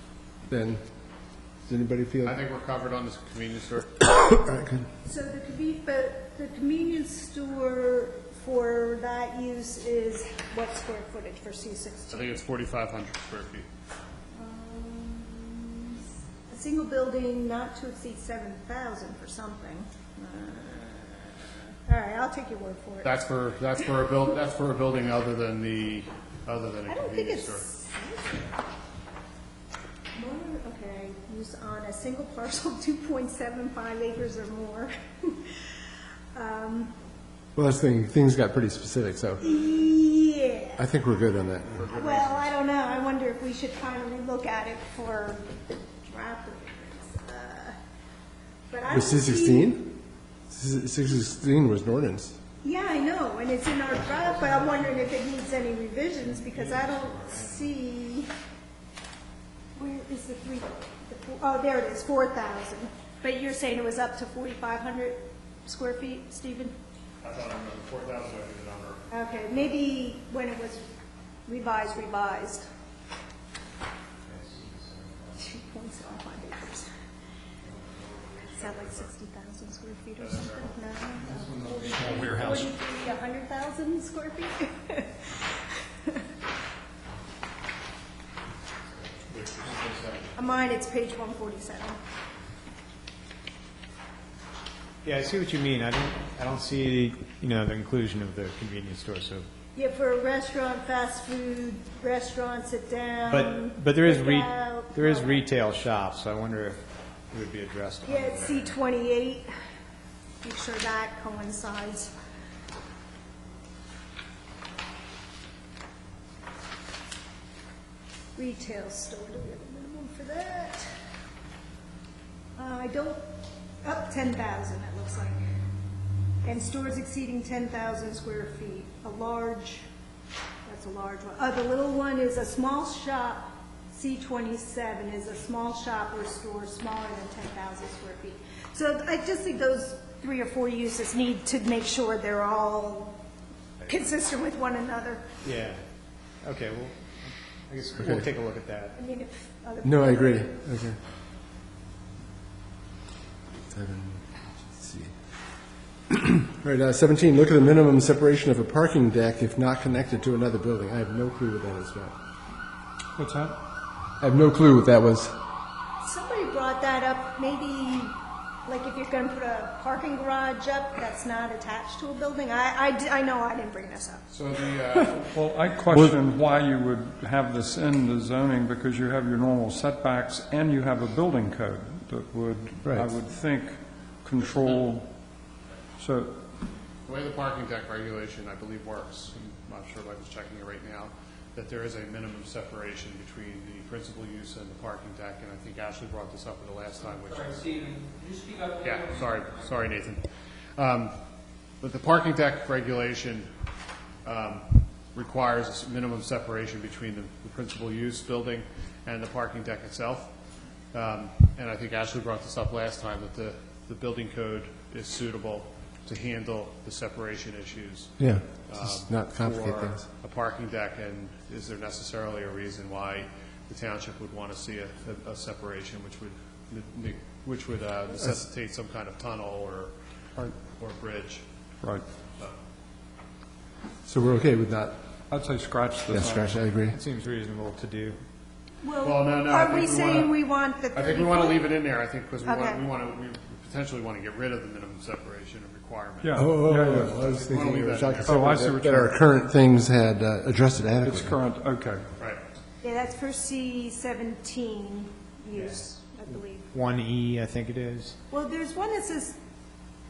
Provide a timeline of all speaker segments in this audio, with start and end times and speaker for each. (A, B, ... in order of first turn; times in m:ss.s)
0:00.5-0:00.8 A
0:01.7-0:02.4 A
0:02.2-0:03.9 B
0:04.0-0:04.8 A
0:05.0-0:12.4 C
0:12.1-0:13.7 B
0:14.4-0:23.1 C
0:23.0-0:27.6 B
0:26.9-0:28.5 C
0:30.2-0:35.6 C
0:36.3-0:36.9 C
0:37.6-0:39.6 A
0:39.4-0:40.8 C
0:40.8-0:41.8 A
0:41.6-0:42.5 B
0:41.9-0:45.5 C
0:46.1-0:47.8 C
0:48.7-0:49.8 C
0:48.9-0:50.0 A
0:50.5-0:52.4 A
0:52.6-0:58.3 C
0:59.8-1:06.7 C
1:07.2-1:09.0 B
1:09.1-1:10.9 C
1:11.5-1:12.7 C
1:14.3-1:15.3 D
1:15.4-1:16.9 C
1:17.7-1:19.0 B
1:18.5-1:25.5 C
1:20.2-1:20.6 B
1:21.4-1:21.9 D
1:22.0-1:22.7 E
1:29.3-1:30.2 D
1:29.4-1:30.1 B
1:30.4-1:32.0 C
1:35.0-1:39.5 D
1:39.8-1:45.4 C
1:43.3-1:46.8 D
1:47.3-1:48.7 D
1:48.0-1:49.5 C
1:50.4-1:52.1 C
1:58.4-2:00.9 C
2:02.6-2:03.2 C
2:03.8-2:05.5 C
2:06.4-2:09.9 C
2:10.6-2:23.2 C
2:23.8-2:25.3 C
2:25.4-2:25.8 D
2:26.4-2:29.0 D
2:29.0-2:30.6 C
2:29.8-2:31.0 A
2:33.7-2:35.1 A
2:36.1-2:42.1 A
2:43.2-2:43.6 E
2:44.2-2:45.4 A
2:46.0-2:54.2 C
2:54.3-2:55.3 B
2:55.2-3:05.3 E
3:02.8-3:03.1 A
3:06.0-3:06.7 E
3:07.1-3:17.9 B
3:17.3-3:19.7 F
3:18.8-3:21.2 B
3:21.8-3:23.5 B
3:24.2-3:30.3 B
3:30.9-3:51.4 B
3:38.2-3:40.1 A
3:54.1-3:55.0 A
3:55.3-3:56.7 E
3:56.1-3:57.0 A
3:56.9-3:58.2 D
3:58.8-4:01.7 C
3:59.0-4:00.4 B
4:00.9-4:06.4 B
4:02.4-4:02.8 C
4:06.2-4:07.3 E
4:06.4-4:11.3 A
4:07.0-4:08.4 B
4:08.2-4:09.2 E
4:11.0-4:12.1 E
4:12.8-4:16.7 C
4:15.5-4:15.8 D
4:16.6-4:18.2 D
4:18.3-4:19.4 C